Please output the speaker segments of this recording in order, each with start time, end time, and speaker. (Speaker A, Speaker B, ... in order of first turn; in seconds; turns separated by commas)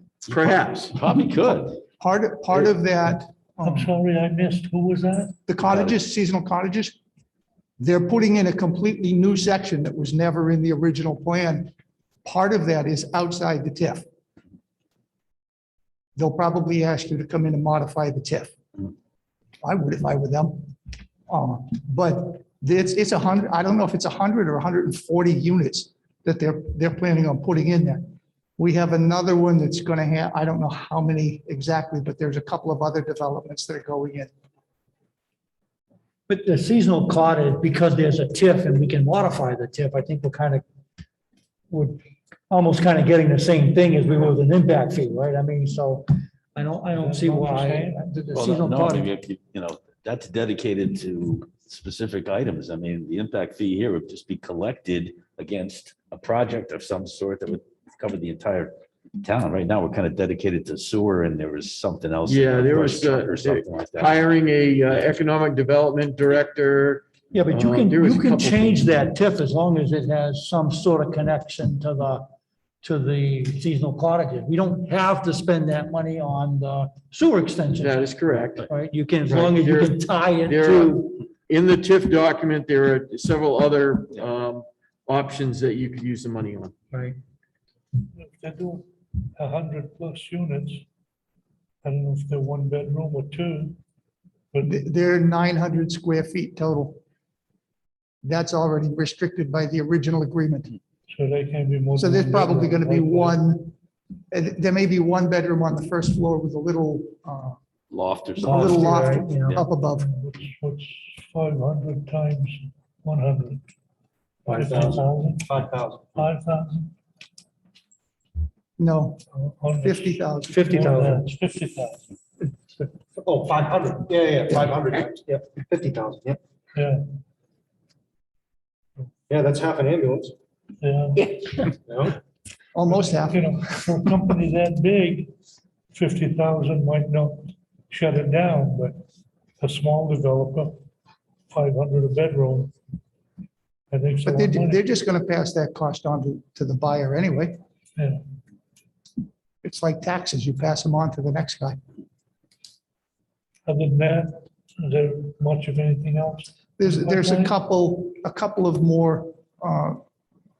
Speaker A: 0.2-1.0, Speaker B: 0.3-1.8, Speaker C: 2.0-3.9, Speaker D: 3.6-5.3, Speaker C: 5.5-7.0, Speaker B: 5.6-6.0, Speaker C: 7.8-11.7, Speaker C: 12.2-14.0, Speaker C: 16.1-18.5, Speaker C: 19.6-20.7, Speaker C: 21.3-28.1, Speaker C: 28.6-34.3, Speaker E: 36.3-40.6, Speaker E: 41.7-49.1, Speaker D: 47.0-48.0, Speaker B: 48.3-64.2, Speaker A: 62.2-68.9, Speaker E: 67.3-72.2, Speaker E: 72.8-78.0, Speaker A: 77.8-78.7, Speaker E: 78.7-81.2, Speaker A: 79.3-86.7, Speaker D: 88.2-88.8, Speaker D: 89.3-90.8, Speaker D: 91.8-93.8, Speaker D: 94.5-94.8, Speaker C: 94.6-97.0, Speaker C: 98.2-100.7, Speaker D: 101.1-103.4, Speaker C: 102.0-103.7, Speaker C: 104.3-107.6, Speaker B: 107.9-109.7, Speaker E: 108.4-109.6, Speaker C: 108.4-110.1, Speaker D: 110.0-113.6, Speaker E: 114.5-115.0, Speaker D: 114.5-116.9, Speaker F: 114.5-116.3, Speaker C: 118.8-119.2, Speaker D: 119.3-122.0, Speaker C: 119.8-120.5, Speaker E: 120.5-121.3, Speaker F: 123.2-126.4, Speaker D: 126.8-127.0, Speaker F: 129.3-130.3, Speaker D: 130.8-131.7, Speaker F: 131.9-132.2, Speaker C: 132.7-133.5, Speaker D: 132.9-135.3, Speaker D: 135.9-139.0, Speaker D: 139.6-140.7, Speaker D: 141.5-142.7, Speaker D: 143.9-144.8, Speaker C: 144.2-147.6, Speaker C: 149.6-151.8, Speaker D: 153.7-157.5, Speaker C: 156.8-160.0